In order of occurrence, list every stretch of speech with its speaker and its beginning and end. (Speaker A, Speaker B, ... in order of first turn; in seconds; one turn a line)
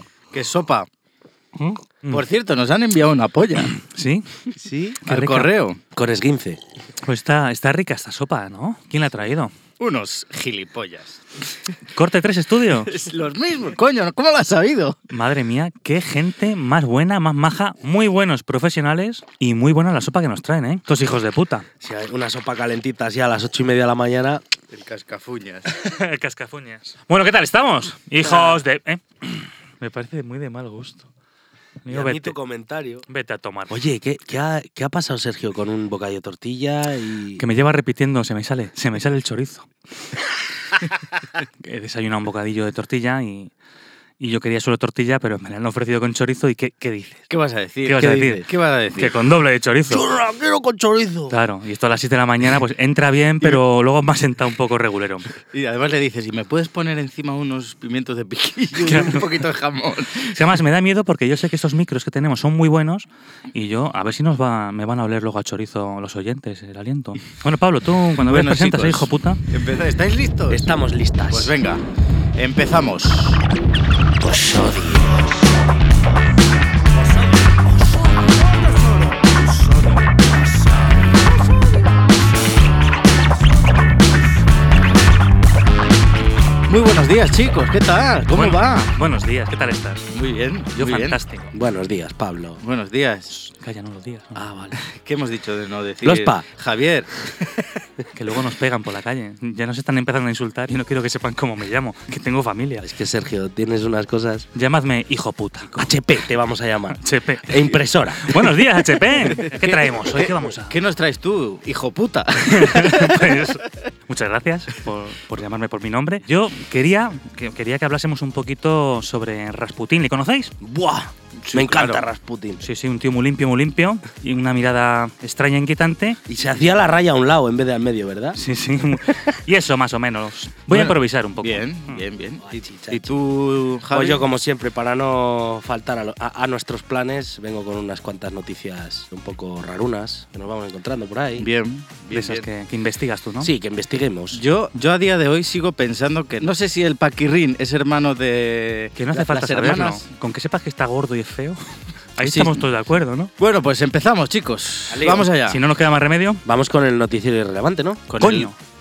Speaker A: 0.3-0.9
Speaker A: 2.1-3.7
Speaker B: 3.8-4.3
Speaker C: 4.6-5.0
Speaker A: 5.0-5.8
Speaker B: 5.0-5.5
Speaker C: 5.9-6.6
Speaker B: 7.0-9.5
Speaker A: 9.8-11.2
Speaker B: 11.9-13.0
Speaker A: 12.9-15.0
Speaker B: 15.1-21.6
Speaker C: 21.8-24.4
Speaker A: 24.7-25.8
Speaker B: 25.7-31.1
Speaker C: 28.2-28.6
Speaker B: 31.8-32.4
Speaker C: 31.9-33.0
Speaker B: 33.1-33.8
Speaker C: 33.7-37.4
Speaker B: 37.4-39.7
Speaker B: 41.6-43.5
Speaker B: 44.2-47.3
Speaker A: 47.3-49.1
Speaker B: 47.8-48.5
Speaker B: 49.0-50.0
Speaker C: 49.9-51.3
Speaker B: 51.3-55.3
Speaker A: 55.4-60.4
Speaker B: 58.8-59.3
Speaker B: 60.3-69.4
Speaker A: 68.1-70.8
Speaker C: 70.5-71.5
Speaker A: 71.3-71.8
Speaker A: 72.4-73.4
Speaker C: 74.2-75.3
Speaker A: 86.7-88.9
Speaker B: 88.3-90.1
Speaker A: 90.1-91.2
Speaker B: 90.8-91.5
Speaker C: 91.5-92.6
Speaker A: 92.6-93.3
Speaker B: 93.3-94.4
Speaker C: 94.3-94.8
Speaker A: 94.8-97.2
Speaker C: 96.0-96.5
Speaker B: 98.1-102.8
Speaker C: 102.8-104.5
Speaker B: 104.5-105.9
Speaker C: 105.8-108.5
Speaker B: 107.0-110.8
Speaker A: 109.4-113.5
Speaker B: 112.5-120.5
Speaker C: 120.6-122.6
Speaker A: 121.4-122.0
Speaker B: 122.6-126.2
Speaker C: 126.3-128.4
Speaker B: 128.3-132.0
Speaker A: 130.7-134.2
Speaker C: 132.4-133.2
Speaker C: 133.9-141.5
Speaker A: 141.4-142.5
Speaker B: 142.1-143.5
Speaker C: 143.4-144.4
Speaker A: 144.3-150.1
Speaker B: 148.9-151.6
Speaker B: 152.2-153.3
Speaker A: 152.2-152.6
Speaker A: 153.4-155.6
Speaker C: 154.9-155.3
Speaker B: 155.4-156.4
Speaker C: 156.5-158.1
Speaker B: 158.1-158.6
Speaker A: 158.2-158.5